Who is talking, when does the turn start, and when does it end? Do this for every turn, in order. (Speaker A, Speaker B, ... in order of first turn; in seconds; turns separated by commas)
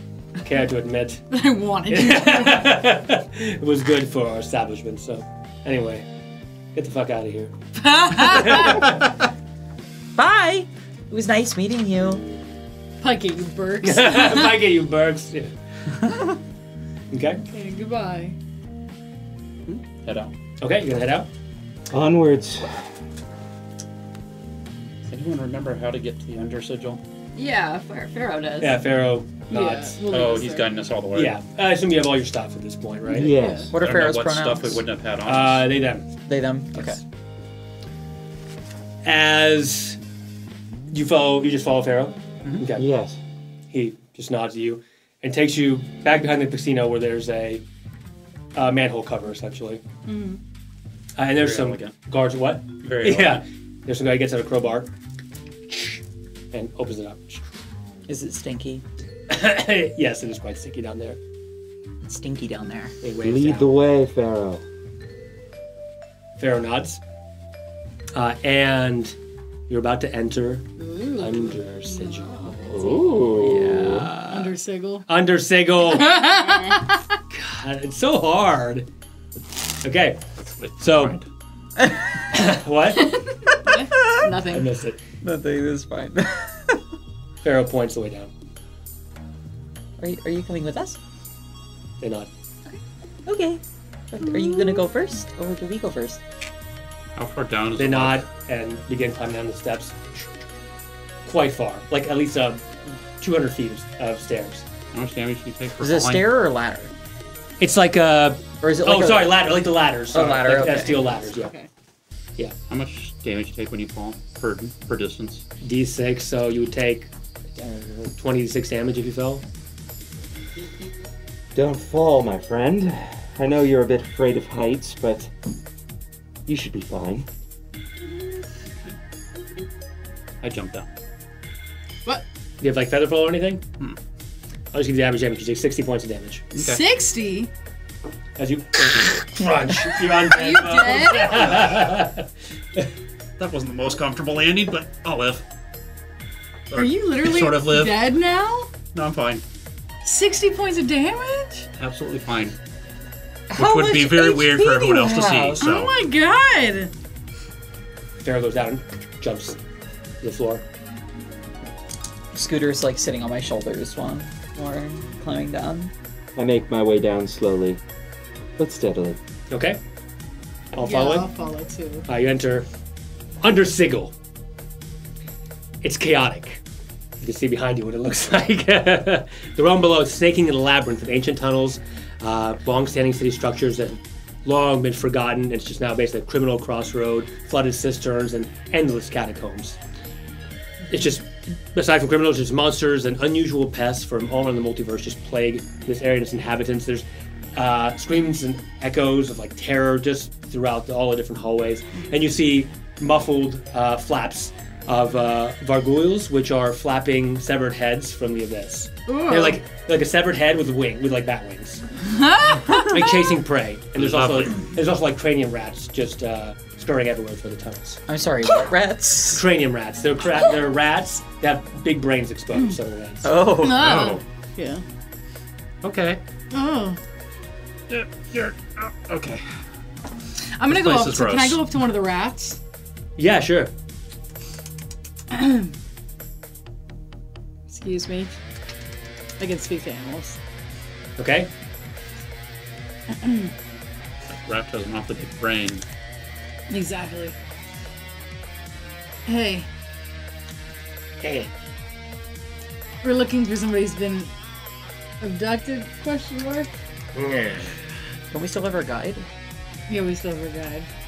Speaker A: 0.4-1.2, Speaker B: 1.3-2.7, Speaker A: 1.9-6.1, Speaker A: 6.7-7.6, Speaker B: 7.8-8.8, Speaker A: 8.2-9.0, Speaker C: 10.1-12.2, Speaker B: 13.0-14.6, Speaker A: 13.8-15.5, Speaker A: 17.1-17.4, Speaker B: 17.4-18.4, Speaker D: 19.7-20.3, Speaker A: 20.6-21.3, Speaker E: 21.9-22.9, Speaker D: 25.0-27.0, Speaker F: 27.3-28.8, Speaker A: 28.6-30.0, Speaker B: 29.5-30.9, Speaker D: 30.1-31.4, Speaker A: 31.1-33.3, Speaker E: 33.1-33.7, Speaker B: 33.2-33.7, Speaker C: 33.7-34.8, Speaker D: 33.8-35.7, Speaker A: 35.2-36.0, Speaker C: 36.2-37.0, Speaker A: 39.0-40.0, Speaker A: 40.9-42.9, Speaker E: 42.8-43.2, Speaker A: 43.7-47.6, Speaker A: 48.5-49.8, Speaker B: 50.0-50.4, Speaker A: 51.1-54.9, Speaker D: 51.3-52.0, Speaker D: 52.8-53.4, Speaker A: 55.7-56.0, Speaker A: 56.5-57.4, Speaker C: 58.1-58.8, Speaker A: 59.3-61.2, Speaker C: 62.0-62.9, Speaker A: 63.0-63.7, Speaker E: 63.2-64.6, Speaker A: 66.4-67.0, Speaker A: 68.1-69.2, Speaker A: 69.7-74.5, Speaker B: 70.8-72.5, Speaker E: 72.7-74.1, Speaker B: 74.2-75.0, Speaker A: 75.1-76.2, Speaker B: 75.9-77.0, Speaker A: 77.3-78.9, Speaker A: 79.8-81.2, Speaker D: 80.4-81.3, Speaker A: 82.3-83.2, Speaker B: 83.6-83.9, Speaker C: 83.8-84.2, Speaker F: 83.9-84.7, Speaker A: 84.4-85.0, Speaker C: 85.2-86.8, Speaker A: 87.4-88.3, Speaker C: 90.0-91.0, Speaker A: 92.0-92.3, Speaker C: 93.2-96.2, Speaker D: 97.2-98.2, Speaker A: 97.7-100.2, Speaker A: 101.2-104.7, Speaker D: 104.9-106.3, Speaker C: 105.8-106.9, Speaker A: 107.6-111.5, Speaker C: 108.6-109.5, Speaker C: 110.1-111.3, Speaker B: 111.3-111.7, Speaker D: 112.7-115.5, Speaker A: 115.6-119.4, Speaker E: 121.5-125.3, Speaker E: 126.5-127.3, Speaker D: 130.4-130.9, Speaker A: 132.6-133.6, Speaker A: 134.7-136.5, Speaker D: 136.5-136.8, Speaker B: 136.6-137.5, Speaker A: 138.4-142.2, Speaker B: 140.2-141.6, Speaker D: 143.4-145.4, Speaker D: 146.7-148.1, Speaker B: 146.7-148.7, Speaker D: 148.8-149.4, Speaker B: 150.0-151.7, Speaker D: 151.8-152.5, Speaker C: 153.5-155.6, Speaker D: 153.5-155.9, Speaker B: 155.6-156.9, Speaker A: 158.2-159.6, Speaker A: 160.2-160.6, Speaker C: 162.3-165.9, Speaker E: 166.3-167.8, Speaker E: 168.6-169.2, Speaker A: 169.5-169.8, Speaker A: 170.7-171.3, Speaker B: 170.8-172.1, Speaker A: 172.1-172.7, Speaker A: 173.4-174.1, Speaker A: 175.8-176.6, Speaker A: 177.2-189.8, Speaker A: 190.9-211.8, Speaker B: 209.1-209.6, Speaker B: 212.0-213.3, Speaker A: 212.7-218.0, Speaker D: 213.9-214.7, Speaker C: 218.1-219.4, Speaker A: 219.3-223.3, Speaker C: 223.2-223.9, Speaker B: 223.6-224.8, Speaker D: 223.6-224.2, Speaker D: 225.8-226.2, Speaker B: 226.5-227.0, Speaker D: 227.9-229.6, Speaker B: 230.6-232.6, Speaker D: 230.7-231.6, Speaker A: 233.2-233.7, Speaker B: 235.3-235.7, Speaker B: 237.7-238.3, Speaker B: 239.4-240.4, Speaker A: 241.2-241.5, Speaker B: 243.1-243.5, Speaker D: 244.3-245.8, Speaker B: 246.7-247.3, Speaker B: 249.2-249.7, Speaker A: 251.2-251.5, Speaker B: 253.0-254.3, Speaker B: 255.2-256.7, Speaker A: 257.1-257.8, Speaker C: 258.3-259.3, Speaker B: 259.9-260.9